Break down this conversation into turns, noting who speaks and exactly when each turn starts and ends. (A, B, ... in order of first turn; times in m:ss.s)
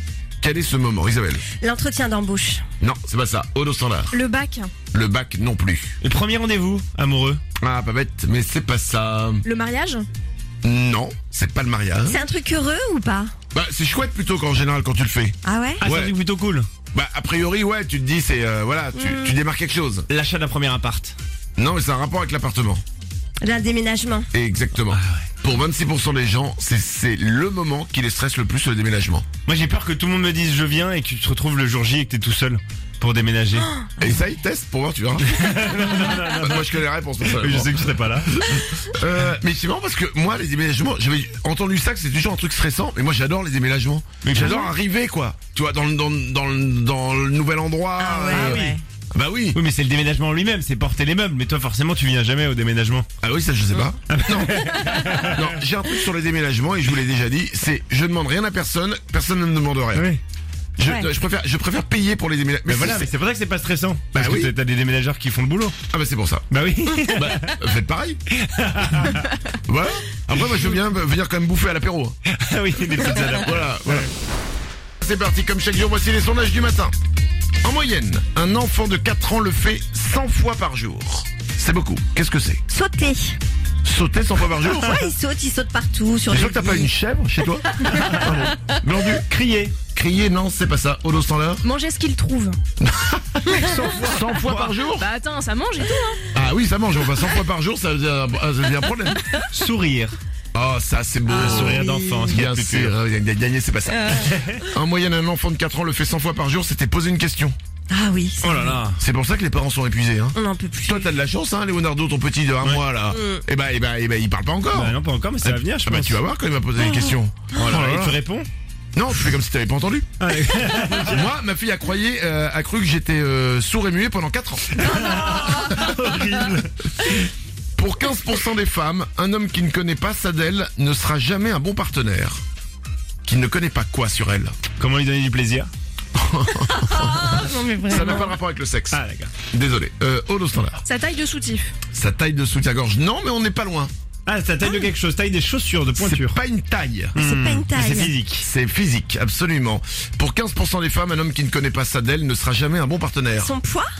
0:00.4-0:01.4 A
0:01.6-0:02.6 B
0:02.8-0:04.2 A
0:04.1-0:04.7 C
0:04.9-0:06.0 A
0:06.0-0:07.4 D
0:07.6-0:09.4 A
0:09.4-0:10.1 C
0:10.6-0:12.2 A
0:12.1-0:13.3 B
0:13.5-0:16.2 A
0:15.4-0:15.8 B
0:15.8-0:16.7 D
0:16.9-0:20.1 A
0:19.0-0:19.4 B
0:20.1-0:21.2 D
0:21.6-0:22.8 A
0:23.4-0:24.3 B
0:24.3-0:29.3 A
0:24.9-0:25.3 D
0:29.4-0:33.7 D
0:34.0-0:49.6 A
0:35.2-0:38.4 D
0:44.2-0:44.7 D
0:48.0-0:48.8 B
0:48.4-0:48.7 D
0:49.5-0:53.1 D
0:53.2-0:54.7 A
0:54.1-0:55.6 D
0:55.2-1:00.1 A
0:59.9-1:00.2 D
1:00.8-1:03.1 A
1:02.7-1:05.8 D
1:04.1-1:04.5 A
1:05.9-1:06.5 A
1:06.5-1:07.6 D
1:07.0-1:08.2 A
1:08.3-1:09.3 D
1:09.7-1:12.2 A
1:10.3-1:10.8 D
1:12.3-1:14.1 D
1:12.8-1:14.1 A
1:15.0-1:16.9 A
1:17.6-1:22.6 A
1:22.7-1:23.4 B
1:23.8-1:25.0 A
1:24.7-1:26.9 B
1:26.3-1:29.2 A
1:27.9-1:28.3 D
1:29.3-1:29.8 D
1:29.9-1:31.6 A
1:31.6-1:32.6 C
1:32.8-1:35.1 A
1:33.5-1:34.8 D
1:35.0-1:36.2 C
1:36.3-1:39.4 A
1:39.5-1:40.2 D
1:40.5-1:47.6 A
1:41.3-1:43.0 D
1:41.3-1:42.4 B
1:44.4-1:44.6 D
1:47.9-1:48.8 B
1:48.4-1:49.0 D
1:49.0-1:58.2 A
1:50.4-1:51.1 B
1:53.1-1:53.4 B
1:54.7-1:56.2 D
1:56.8-1:57.1 B
1:57.5-1:58.5 D
1:58.9-2:00.1 A
2:00.2-2:01.3 D
2:00.9-2:05.6 A
2:04.7-2:06.7 D
2:07.8-2:12.4 A
2:13.2-2:14.5 A
2:14.8-2:15.7 D
2:16.2-2:20.8 A
2:16.6-2:18.4 B
2:18.9-2:19.3 D
2:20.8-2:21.7 C
2:21.9-2:23.9 A
2:24.3-2:26.4 D
2:26.0-2:27.2 A
2:27.1-2:28.5 D
2:27.2-2:28.1 B
2:28.4-2:33.5 A
2:33.4-2:33.9 B